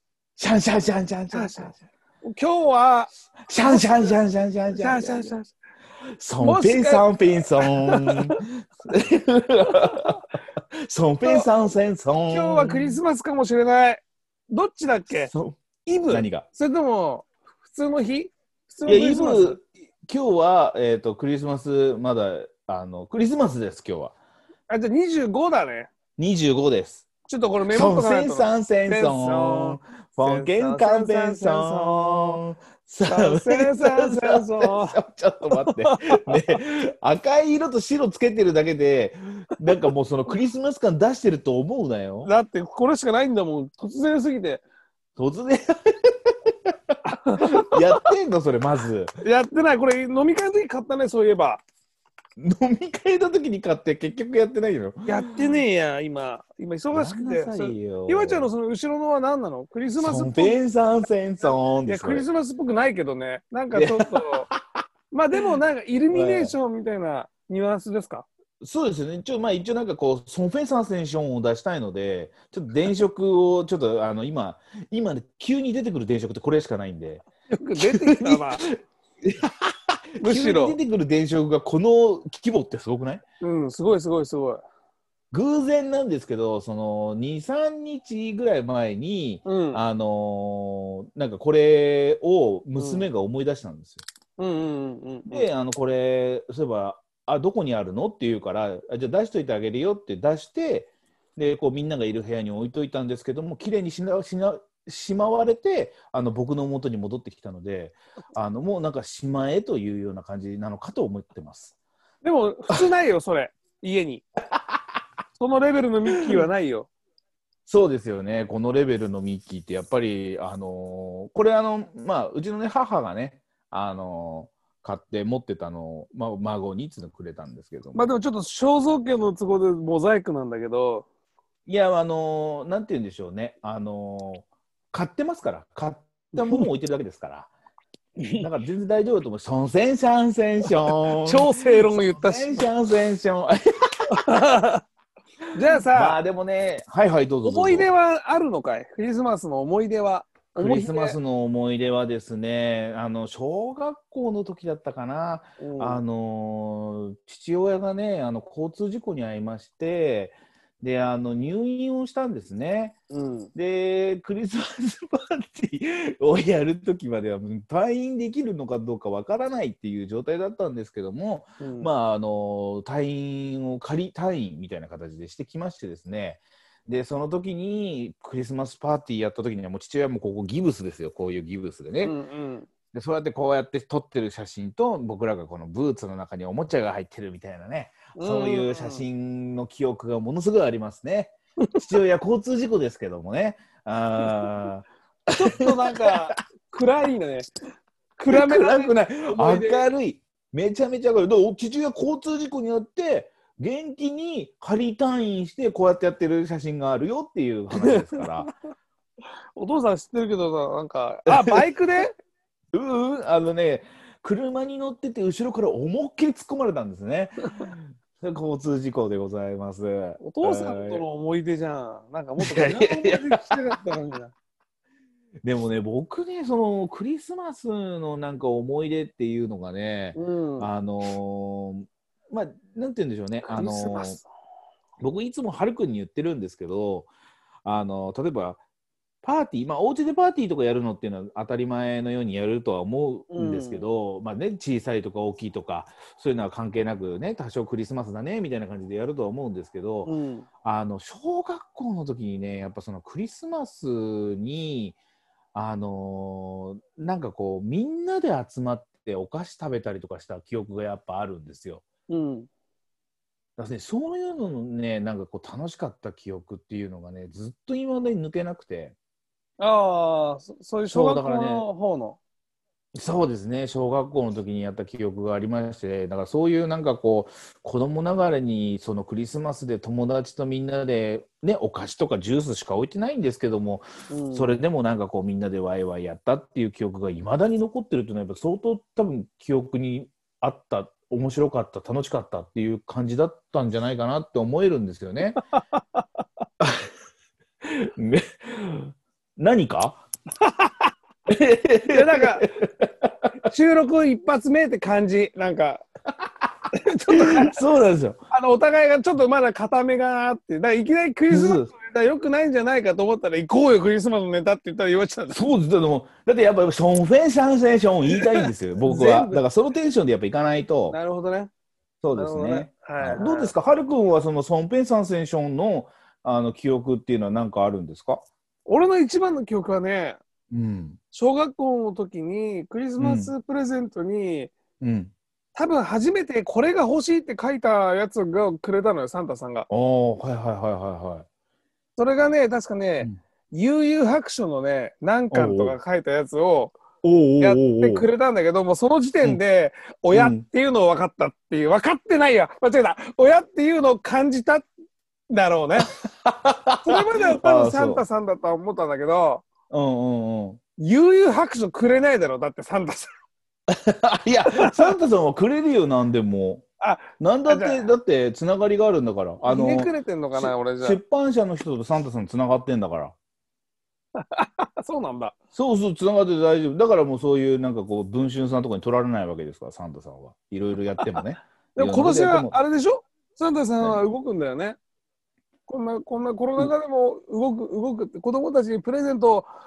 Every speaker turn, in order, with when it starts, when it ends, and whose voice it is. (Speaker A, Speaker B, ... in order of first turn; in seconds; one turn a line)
Speaker A: 0.4-1.7
Speaker B: 1.3-4.1
Speaker A: 3.5-5.3
Speaker B: 4.7-5.5
Speaker A: 6.2-10.2
Speaker B: 6.4-8.4
Speaker B: 9.7-10.2
Speaker A: 10.8-13.0
Speaker B: 12.3-15.3
Speaker A: 15.1-16.4
Speaker B: 15.8-19.6
Speaker A: 18.9-24.1
Speaker B: 24.7-25.9
Speaker A: 26.2-27.1
Speaker B: 27.3-32.4
Speaker A: 27.7-42.3
Speaker B: 33.0-35.0
Speaker B: 35.5-36.6
Speaker B: 42.2-44.6
Speaker A: 45.2-49.1
Speaker B: 47.1-47.8
Speaker B: 49.2-51.6
Speaker A: 52.4-55.3
Speaker B: 55.0-60.6
Speaker A: 56.9-58.5
Speaker A: 60.0-62.3
Speaker B: 61.9-64.5
Speaker A: 63.7-64.5
Speaker B: 65.1-68.3
Speaker A: 66.1-66.5
Speaker A: 68.6-77.2
Speaker B: 77.5-78.7
Speaker A: 77.8-83.2
Speaker B: 80.2-80.8
Speaker B: 83.4-84.6
Speaker A: 85.3-94.0
Speaker B: 89.4-89.8
Speaker B: 92.8-93.0
Speaker B: 94.4-95.5
Speaker A: 95.3-111.8
Speaker B: 112.2-114.2
Speaker B: 115.4-116.9
Speaker A: 116.1-116.4
Speaker A: 117.7-128.1
Speaker B: 127.9-131.1
Speaker A: 131.7-137.5
Speaker B: 136.4-136.7
Speaker B: 138.2-138.4
Speaker A: 138.4-143.6
Speaker B: 141.2-142.7
Speaker B: 144.1-144.8
Speaker B: 145.5-146.2
Speaker A: 145.9-147.9
Speaker B: 147.4-151.2
Speaker A: 150.6-163.0
Speaker B: 155.6-156.0
Speaker B: 163.1-163.5
Speaker A: 163.5-182.1
Speaker B: 171.6-171.9
Speaker B: 182.0-182.7
Speaker A: 182.9-196.3
Speaker B: 188.1-189.0
Speaker B: 195.3-197.5
Speaker B: 198.2-199.9
Speaker A: 198.3-208.5
Speaker B: 207.7-208.3
Speaker B: 209.6-212.1
Speaker A: 211.3-211.7
Speaker A: 212.7-221.0
Speaker B: 220.2-224.3
Speaker A: 222.4-223.6
Speaker A: 225.4-234.2
Speaker B: 230.1-230.7
Speaker B: 233.4-234.3
Speaker A: 235.0-237.1
Speaker A: 237.6-238.6
Speaker A: 239.2-250.1
Speaker B: 243.3-243.8
Speaker B: 250.1-250.4
Speaker A: 250.6-255.0
Speaker A: 255.5-261.8
Speaker B: 262.1-262.5
Speaker A: 263.6-268.9
Speaker B: 269.6-272.2
Speaker A: 270.9-271.7
Speaker A: 272.9-295.4
Speaker B: 284.1-284.6
Speaker B: 295.6-296.0
Speaker A: 296.6-296.9
Speaker A: 297.6-300.0
Speaker B: 300.4-300.9
Speaker A: 301.3-303.1
Speaker B: 301.9-302.4
Speaker B: 303.4-305.8
Speaker B: 306.7-307.6
Speaker A: 307.1-308.2
Speaker B: 308.3-315.4
Speaker A: 311.3-311.7
Speaker A: 315.3-321.0
Speaker B: 318.1-319.4
Speaker B: 320.9-321.5
Speaker A: 322.0-328.2
Speaker B: 322.1-323.5
Speaker B: 328.6-330.2
Speaker A: 330.5-331.0
Speaker B: 331.1-334.5
Speaker A: 333.0-333.3
Speaker A: 334.8-335.1
Speaker B: 335.5-339.7
Speaker A: 339.7-341.3
Speaker B: 342.0-346.8
Speaker A: 345.3-345.8
Speaker A: 347.0-348.1
Speaker B: 347.4-354.7
Speaker A: 350.1-350.4
Speaker B: 355.3-355.9
Speaker A: 356.0-358.0
Speaker B: 356.8-359.4
Speaker A: 359.7-360.6
Speaker B: 360.8-363.1
Speaker A: 363.7-366.6
Speaker B: 364.5-364.9
Speaker B: 366.8-367.9
Speaker A: 367.2-373.1
Speaker B: 369.4-371.0
Speaker B: 374.2-375.3
Speaker A: 375.5-382.6
Speaker B: 381.8-384.8
Speaker B: 385.7-389.5